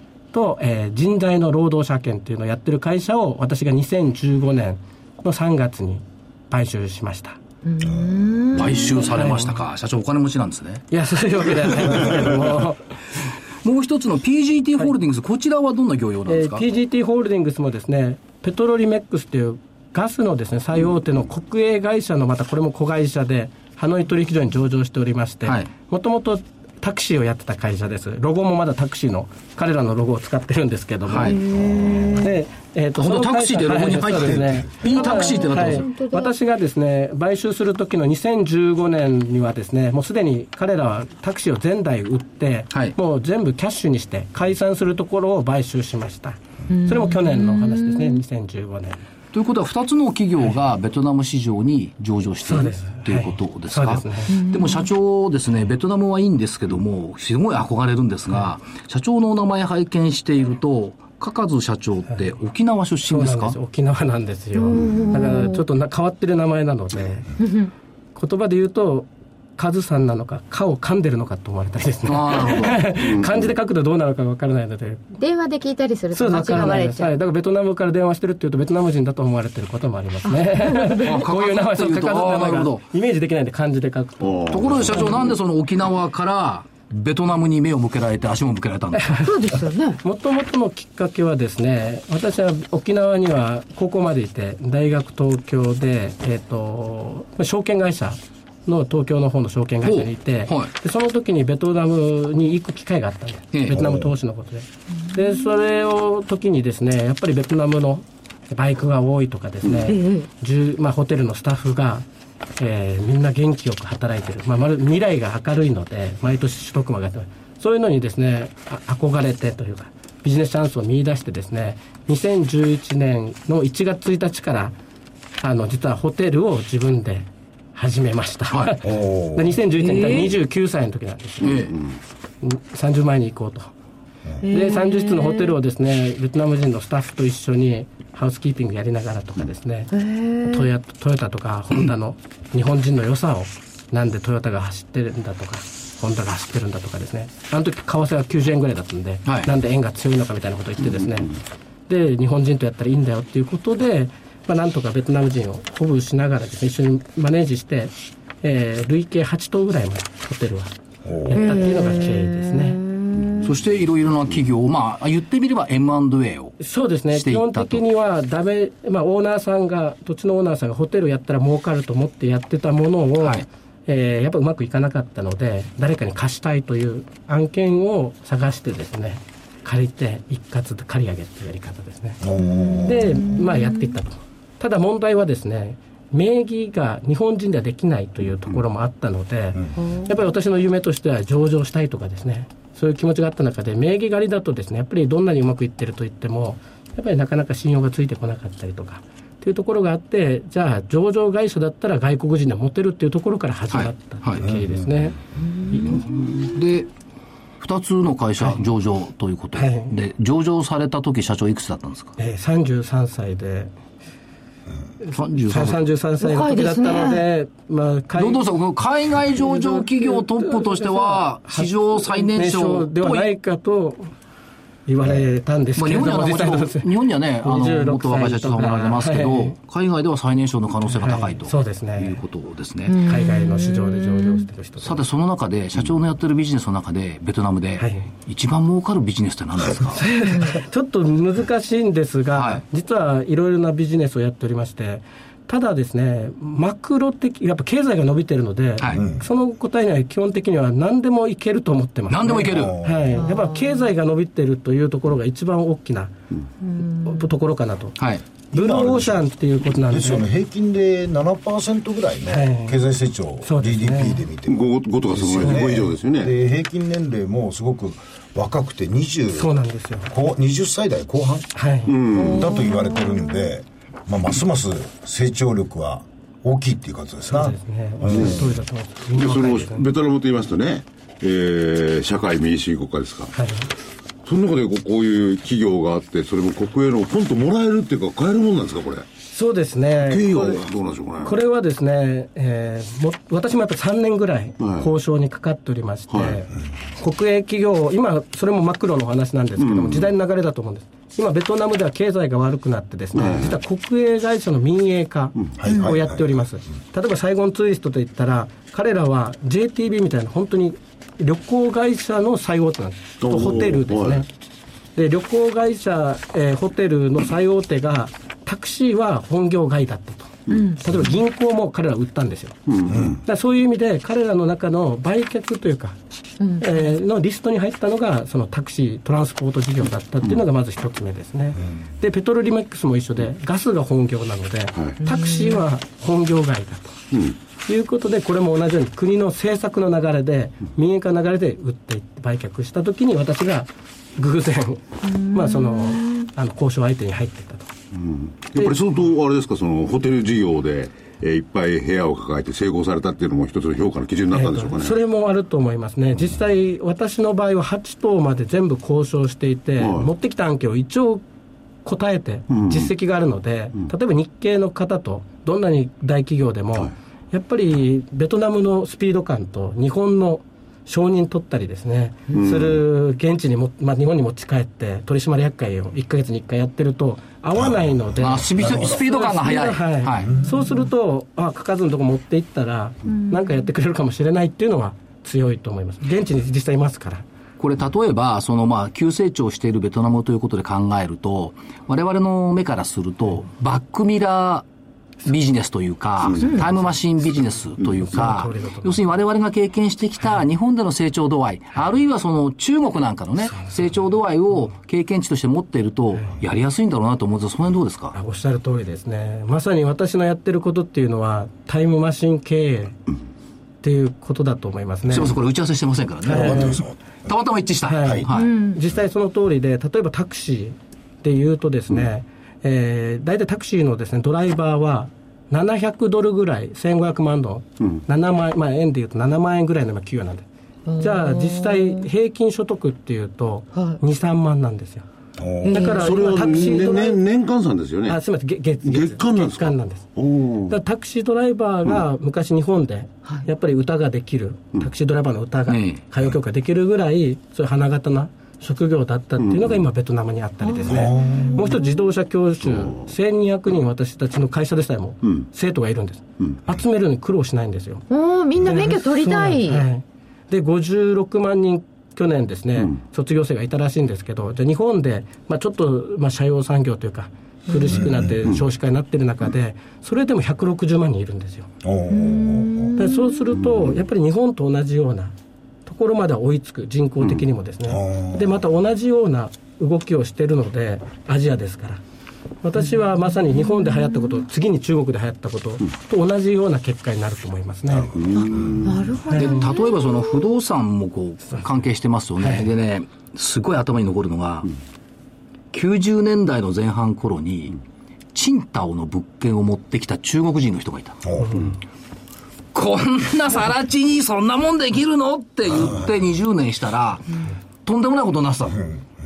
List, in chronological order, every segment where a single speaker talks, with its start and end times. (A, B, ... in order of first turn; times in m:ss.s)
0:00.3-0:07.4 A
0:07.6-0:09.3 B
0:08.5-0:10.8 C
0:09.1-0:09.6 A
0:10.9-0:12.9 A
0:13.6-0:16.6 C
0:16.3-0:31.4 A
0:31.1-0:31.4 C
0:31.2-0:32.3 B
0:31.5-0:32.1 D
0:32.1-0:49.0 A
0:33.0-0:35.9 C
0:34.8-0:36.3 B
0:46.7-0:48.2 B
0:49.3-1:03.6 C
0:52.4-0:54.4 A
0:54.3-0:54.9 B
1:03.1-1:07.3 A
1:04.6-1:05.6 B
1:07.4-1:07.7 B
1:08.1-1:15.2 A
1:12.0-1:12.9 C
1:12.9-1:13.5 E
1:15.2-1:17.1 B
1:16.1-1:25.1 A
1:20.2-1:21.1 B
1:21.0-1:22.8 C
1:24.2-1:25.4 E
1:24.5-1:29.2 C
1:29.0-1:29.3 A
1:29.2-1:30.0 B
1:30.0-1:52.0 A
1:39.8-1:40.7 C
1:43.7-1:44.1 D
1:45.0-1:45.4 B
1:49.9-1:50.3 B
1:52.6-2:04.8 A
2:05.4-2:11.6 A
2:08.5-2:08.8 C
2:08.8-2:09.6 D
2:09.8-2:10.4 B
2:11.4-2:11.7 C
2:11.6-2:12.0 E
2:12.4-2:13.7 A
2:14.4-2:15.5 B
2:14.5-2:19.9 A
2:19.9-2:20.7 B
2:20.5-2:31.4 A
2:29.2-2:29.5 C
2:31.9-2:40.7 A
2:41.0-2:41.5 D
2:41.3-2:42.8 A
2:41.3-2:43.5 B
2:43.4-2:46.6 C
2:46.6-3:02.2 A
2:47.1-2:47.8 C
2:53.2-2:53.4 C
3:02.2-3:03.2 D
3:02.4-3:04.0 B
3:02.8-3:25.2 A
3:09.8-3:10.2 B
3:23.7-3:24.4 C
3:25.4-3:26.6 B
3:25.7-3:26.2 A
3:26.4-3:26.9 C
3:27.6-3:32.1 C
3:29.6-3:29.9 A
3:32.2-3:33.7 A
3:35.1-3:38.4 A
3:35.1-3:35.8 C
3:36.2-3:37.2 B
3:38.2-3:43.3 C
3:39.4-3:44.1 A
3:44.9-3:46.9 A
3:45.8-3:53.0 C
3:47.4-3:49.5 A
3:50.9-3:52.2 A
3:52.8-3:54.4 B
3:53.0-3:55.0 A
3:54.8-4:00.0 C
3:57.8-3:58.1 A
3:59.9-4:16.1 A
4:00.2-4:00.6 B
4:02.3-4:02.6 C
4:08.8-4:09.0 C
4:08.9-4:09.2 D
4:12.1-4:12.8 C
4:12.4-4:13.2 D
4:13.1-4:13.9 B
4:16.6-4:17.3 B
4:17.0-4:18.0 A
4:18.0-4:18.2 C
4:18.5-4:20.3 A
4:18.5-4:19.2 D
4:19.9-4:29.5 D
4:22.3-4:22.8 A
4:23.4-4:24.2 A
4:24.5-4:26.3 E
4:29.3-4:30.1 A
4:30.1-4:31.5 D
4:31.5-4:32.0 A
4:31.9-4:32.4 E
4:32.1-4:33.5 B
4:32.1-4:38.5 D
4:37.3-4:39.8 A
4:39.1-4:43.3 E
4:43.3-4:43.7 A
4:44.2-4:49.0 E
4:49.3-4:50.6 A
4:50.0-4:51.4 E
4:51.2-5:14.3 A
4:54.6-4:54.9 E
4:56.1-4:56.4 E
4:59.6-5:00.1 E
5:03.1-5:03.6 E
5:05.6-5:06.2 D
5:13.2-5:14.2 E
5:15.0-5:22.6 A
5:20.5-5:20.7 E
5:20.5-5:21.1 B
5:22.7-5:23.2 E
5:22.9-5:23.2 D
5:23.2-5:26.0 A
5:26.4-5:26.8 B
5:26.6-5:37.0 A
5:35.0-5:35.6 B
5:37.6-5:47.7 A
5:45.0-5:46.3 B
5:47.9-5:55.0 E
5:54.3-6:01.2 A
5:59.8-6:00.1 E
6:01.8-6:27.2 A
6:02.5-6:02.9 E
6:12.3-6:12.8 E
6:18.2-6:20.3 C
6:18.6-6:19.0 D
6:20.4-6:20.8 B
6:23.1-6:23.6 B
6:27.6-6:34.6 C
6:35.2-6:48.1 C
6:38.1-6:39.0 A
6:48.1-6:53.0 A
6:53.8-6:55.4 A
6:55.1-6:58.5 C
6:56.2-6:57.0 D
6:56.3-6:56.8 A
6:57.9-7:10.4 A
6:58.3-6:58.8 B
7:10.8-7:12.0 B
7:11.0-7:15.0 A
7:13.7-7:14.0 B
7:15.4-7:15.9 D
7:15.6-7:17.1 B
7:15.7-7:17.2 A
7:15.9-7:18.2 E
7:18.0-7:20.1 A
7:18.8-7:20.8 E
7:20.7-7:38.0 A
7:25.7-7:26.0 C
7:29.4-7:29.8 E
7:30.6-7:32.0 B
7:30.9-7:31.6 D
7:38.1-7:39.8 B
7:38.6-7:51.7 A
7:47.7-7:48.2 B
7:47.9-7:48.4 D
7:51.8-7:52.9 D
7:52.1-7:53.6 B
7:53.0-7:55.3 A
7:53.6-7:53.9 E
7:55.8-8:02.0 A
7:57.9-7:58.5 D
8:02.6-8:08.1 A
8:03.5-8:04.4 B
8:07.9-8:08.9 D
8:08.2-8:09.0 E
8:08.3-8:10.4 B
8:09.3-8:09.6 A
8:09.3-8:14.7 C
8:12.4-8:12.6 A
8:15.7-8:17.8 C
8:18.3-8:21.2 C
8:21.2-8:21.6 D
8:21.4-8:21.8 A
8:22.7-8:28.9 C